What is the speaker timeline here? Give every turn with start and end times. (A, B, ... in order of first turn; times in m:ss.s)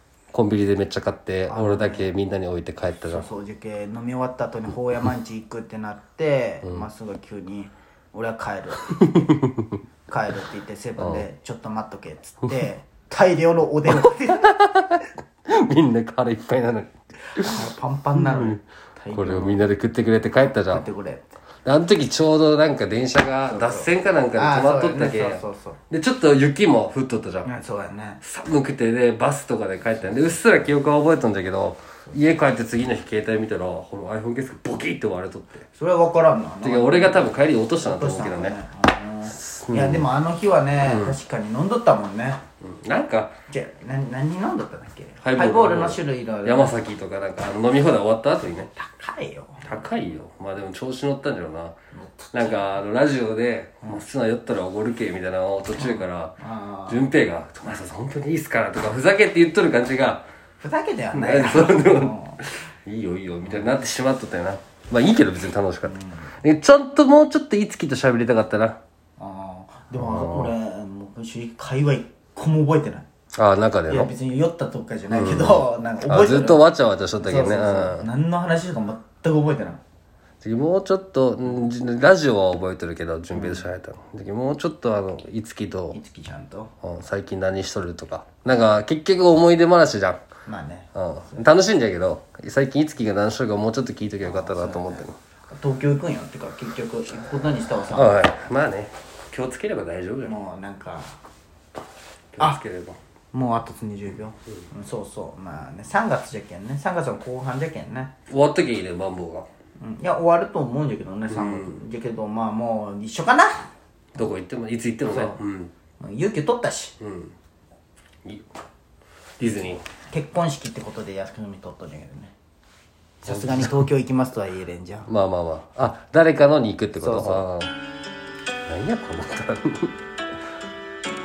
0:00.3-0:03.3 A
0:01.5-0:02.1 B
0:03.1-0:09.3 B
0:09.0-0:09.8 A
0:10.1-0:14.6 B
0:11.0-0:11.2 A
0:13.9-0:18.6 A
0:17.3-0:19.6 B
0:19.1-0:20.9 A
0:20.4-0:21.2 B
0:21.6-0:27.5 A
0:23.5-0:25.8 B
0:27.4-0:28.2 B
0:28.2-0:35.6 A
0:29.9-0:30.7 B
0:35.7-0:42.4 B
0:36.6-0:38.6 A
0:39.3-0:40.1 A
0:40.8-0:41.2 A
0:42.6-0:43.3 A
0:43.5-0:46.8 B
0:45.2-0:48.7 A
0:48.5-0:49.8 B
0:49.6-0:51.8 A
0:51.9-0:52.8 B
0:52.3-0:56.4 A
0:55.8-0:57.1 B
0:56.9-1:00.2 A
1:00.6-1:02.4 B
1:01.1-1:08.8 A
1:03.4-1:03.7 B
1:05.8-1:06.3 B
1:09.2-1:13.1 B
1:10.0-1:10.5 A
1:13.3-1:14.1 A
1:13.9-1:16.6 B
1:15.1-1:18.1 A
1:17.2-1:19.8 B
1:20.4-1:26.0 A
1:23.3-1:23.7 B
1:25.9-1:26.7 B
1:26.8-1:30.2 A
1:30.4-1:31.4 B
1:30.9-1:35.2 A
1:34.2-1:38.3 B
1:37.9-1:40.4 A
1:40.2-1:41.2 B
1:42.3-1:43.0 A
1:43.3-1:48.1 B
1:48.3-1:49.4 A
1:49.8-1:53.7 B
1:51.3-1:51.8 A
1:54.1-1:55.7 A
1:55.0-1:55.4 B
1:56.0-1:57.0 B
1:57.0-1:57.3 A
1:58.2-1:58.5 A
1:59.4-1:59.8 A
2:00.1-2:02.3 B
2:03.2-2:05.1 B
2:03.3-2:03.9 A
2:05.1-2:07.7 A
2:07.0-2:07.5 B
2:08.7-2:10.0 A